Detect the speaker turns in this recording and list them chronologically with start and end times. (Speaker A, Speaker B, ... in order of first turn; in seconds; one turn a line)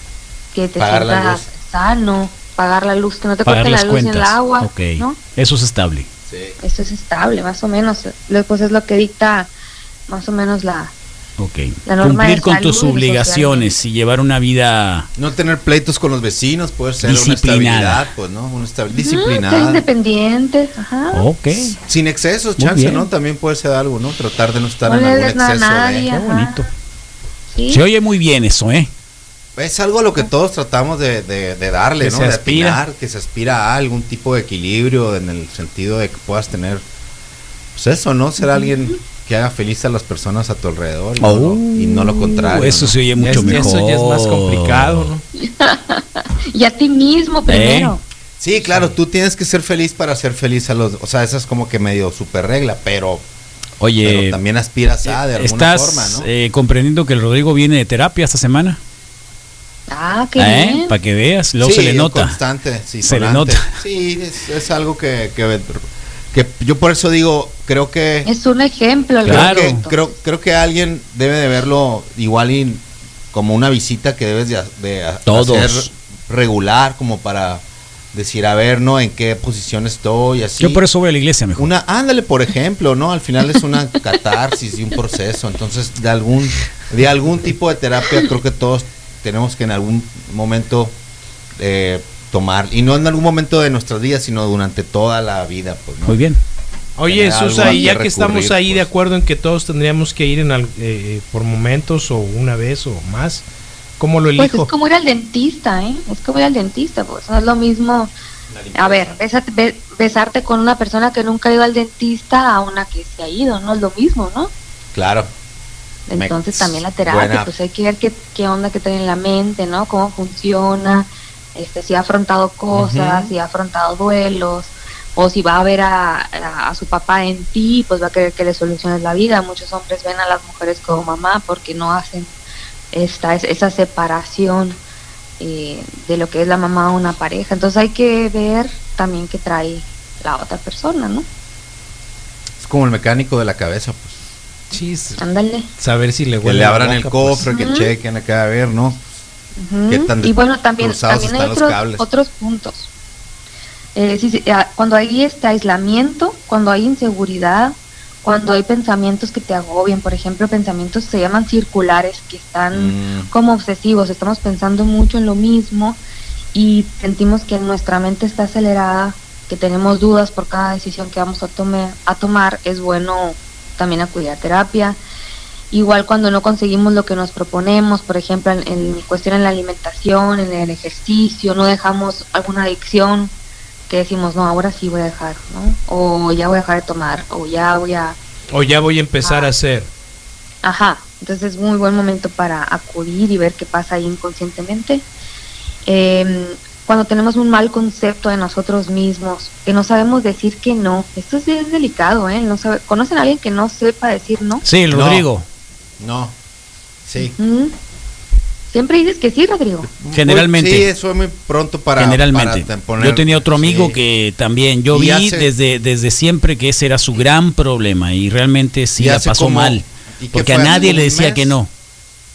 Speaker A: 0.5-5.2
Speaker B: 0.8-1.5
Speaker C: 3.5-6.1
Speaker B: 6.3-6.6
Speaker A: 6.6-9.5
Speaker A: 10.1-10.9
Speaker C: 11.4-15.1
Speaker A: 11.8-13.8
Speaker B: 15.2-19.8
Speaker C: 17.0-18.1
Speaker A: 18.9-21.2
Speaker C: 21.1-21.8
Speaker B: 21.9-26.1
Speaker C: 22.6-23.1
Speaker A: 24.8-26.6
Speaker C: 26.1-26.7
Speaker A: 27.5-27.8
Speaker C: 27.7-28.9
Speaker B: 29.6-36.8
Speaker D: 32.0-32.8
Speaker B: 37.7-43.0
Speaker A: 38.4-39.0
Speaker C: 41.2-45.1
Speaker D: 43.2-45.2
Speaker A: 43.3-43.6
Speaker A: 45.3-48.0
Speaker C: 47.5-48.0
Speaker B: 48.4-53.2
Speaker D: 48.6-48.9
Speaker C: 53.8-54.4
Speaker B: 54.0-56.3
Speaker C: 55.0-58.8
Speaker A: 59.9-60.9
Speaker C: 60.4-62.4
Speaker B: 61.6-68.3
Speaker C: 63.0-63.7
Speaker A: 68.2-70.1
Speaker B: 69.2-80.8
Speaker C: 69.2-69.8
Speaker C: 75.3-75.9
Speaker C: 80.6-81.7
Speaker B: 81.6-90.9
Speaker B: 91.6-96.2
Speaker C: 96.0-96.4
Speaker D: 97.0-103.4
Speaker B: 97.0-98.9
Speaker A: 97.5-97.9
Speaker D: 104.0-104.7
Speaker A: 104.4-108.1
Speaker B: 108.5-109.2
Speaker A: 108.7-114.5
Speaker B: 114.9-115.3
Speaker A: 116.1-132.3
Speaker B: 116.1-117.5
Speaker B: 122.7-123.3
Speaker A: 132.9-134.8
Speaker A: 135.4-141.2
Speaker B: 142.6-144.2
Speaker D: 144.7-145.2
Speaker A: 145.2-145.7
Speaker D: 145.8-147.4
Speaker B: 146.4-149.1
Speaker A: 147.5-147.9
Speaker A: 149.6-152.9
Speaker B: 149.9-152.0
Speaker A: 153.9-166.0
Speaker B: 162.7-163.3
Speaker A: 166.5-175.0
Speaker A: 175.7-183.3
Speaker A: 183.9-188.2
Speaker D: 188.5-189.9
Speaker A: 189.2-189.5
Speaker A: 190.6-195.1
Speaker A: 195.8-204.6
Speaker C: 204.6-205.4
Speaker B: 204.9-205.3
Speaker B: 206.0-206.3
Speaker B: 207.1-207.3
Speaker A: 207.4-207.8
Speaker A: 208.7-209.9
Speaker B: 210.0-214.0
Speaker C: 210.1-210.9
Speaker C: 212.0-221.7
Speaker B: 214.9-215.5
Speaker B: 219.0-221.6